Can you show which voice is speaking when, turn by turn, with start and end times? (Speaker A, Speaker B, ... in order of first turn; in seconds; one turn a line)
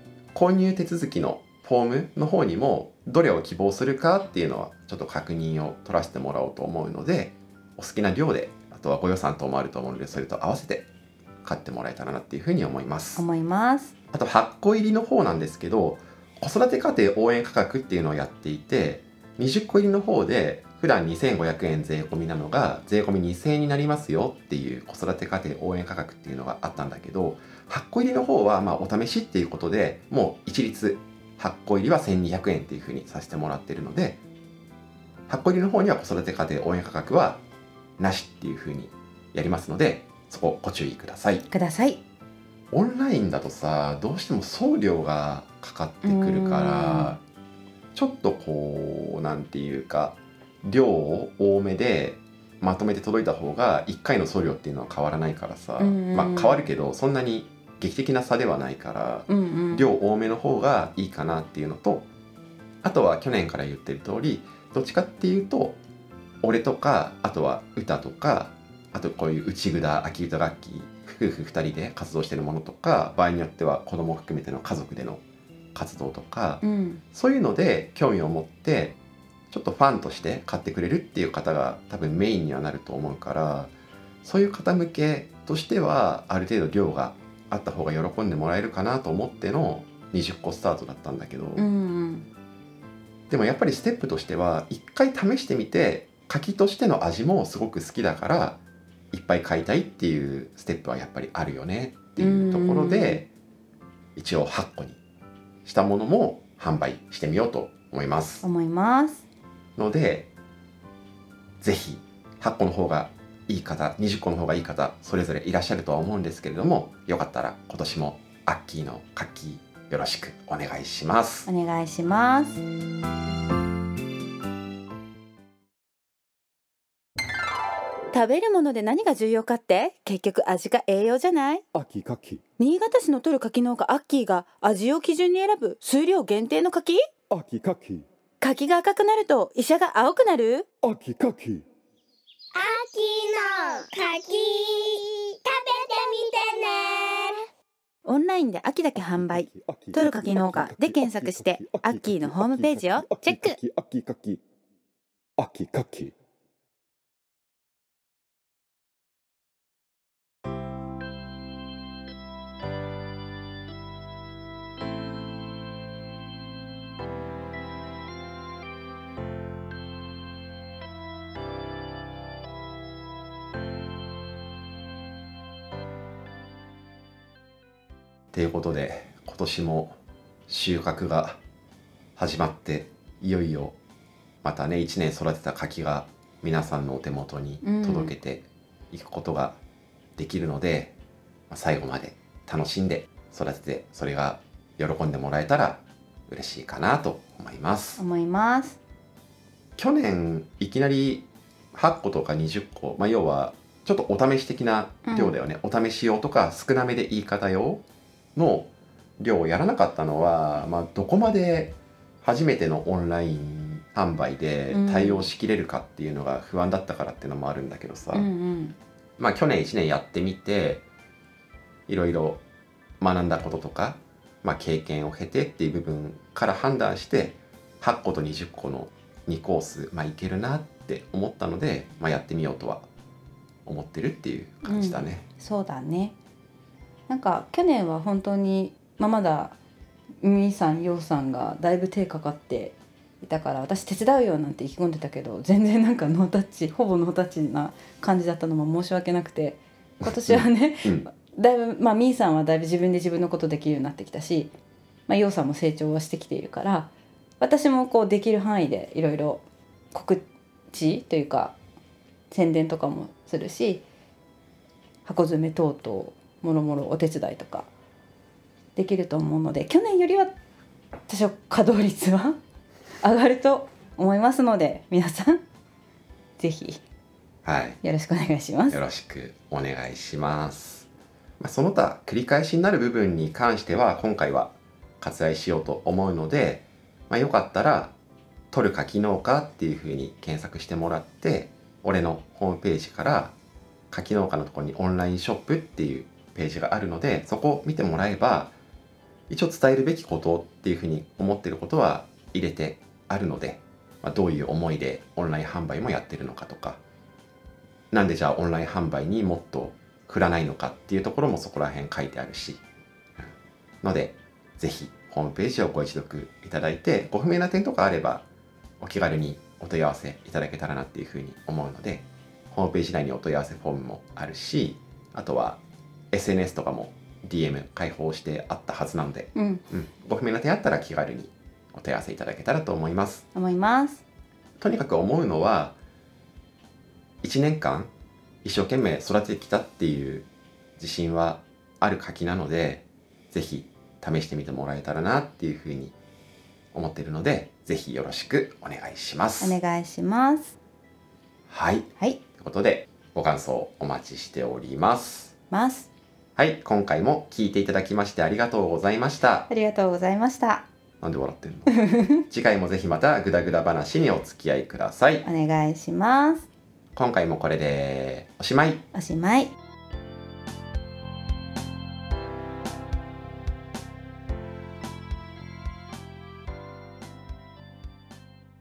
Speaker A: 0.3-10.9
Speaker A: 11.4-13.2
Speaker B: 13.2-13.9
Speaker A: 14.1-34.2
Speaker A: 35.3-37.4
Speaker A: 38.0-41.4
Speaker B: 41.5-42.0
Speaker A: 42.7-47.2
Speaker B: 46.0-47.1
Speaker A: 47.9-62.1
Speaker B: 55.8-56.7
Speaker B: 59.3-59.9
Speaker A: 62.8-65.8
Speaker A: 66.4-75.2
Speaker A: 75.7-76.6
Speaker B: 76.6-77.0
Speaker A: 77.1-79.0
Speaker A: 79.5-83.7
Speaker A: 84.2-91.7
Speaker B: 91.6-92.3
Speaker A: 93.3-98.6
Speaker A: 99.1-103.3
Speaker B: 102.2-103.2
Speaker A: 104.2-105.0
Speaker A: 105.6-108.5
Speaker B: 108.4-109.2
Speaker A: 109.8-110.3
Speaker A: 111.6-121.5
Speaker B: 121.5-122.6
Speaker B: 128.1-131.6
Speaker C: 131.7-132.4
Speaker B: 132.6-137.1
Speaker C: 137.3-138.1
Speaker B: 138.4-140.7
Speaker C: 140.8-141.6
Speaker D: 142.6-147.4
Speaker B: 148.1-153.6
Speaker C: 148.9-154.4
Speaker C: 155.4-156.1
Speaker A: 178.3-180.0
Speaker A: 180.5-181.4
Speaker A: 182.2-183.8
Speaker A: 184.4-189.6
Speaker B: 187.6-188.1
Speaker A: 190.2-190.9
Speaker A: 191.5-198.0
Speaker B: 198.0-198.8
Speaker A: 199.8-207.8
Speaker B: 205.1-205.3
Speaker A: 208.3-218.3
Speaker B: 214.7-215.3
Speaker B: 218.1-218.8
Speaker A: 219.2-220.8
Speaker A: 221.9-222.4
Speaker A: 223.0-232.9
Speaker A: 233.7-235.2
Speaker B: 234.6-236.2
Speaker B: 237.1-239.6
Speaker B: 240.2-254.5
Speaker A: 250.0-251.1
Speaker B: 255.1-261.6
Speaker B: 262.3-263.9
Speaker B: 265.1-267.7
Speaker B: 268.8-270.3
Speaker B: 271.1-272.4
Speaker B: 273.0-275.4
Speaker B: 276.4-276.8
Speaker A: 277.4-277.8
Speaker B: 277.8-278.8
Speaker A: 278.7-280.9
Speaker A: 281.4-287.9
Speaker A: 288.5-293.4
Speaker A: 293.9-298.6
Speaker A: 299.3-306.8
Speaker A: 307.9-312.6
Speaker A: 313.8-318.2
Speaker A: 318.8-325.6
Speaker A: 326.1-333.2
Speaker B: 329.4-329.6
Speaker B: 333.3-334.0
Speaker A: 334.6-335.8
Speaker A: 337.2-337.9
Speaker A: 338.4-340.3
Speaker A: 340.8-345.9
Speaker A: 346.7-349.6
Speaker B: 349.4-350.6
Speaker A: 351.5-355.3
Speaker B: 355.5-355.9
Speaker A: 356.4-359.5
Speaker B: 359.5-360.6
Speaker A: 361.0-361.8
Speaker B: 361.7-362.2
Speaker A: 362.3-365.3
Speaker B: 365.2-366.5
Speaker A: 366.9-368.8
Speaker B: 368.9-369.6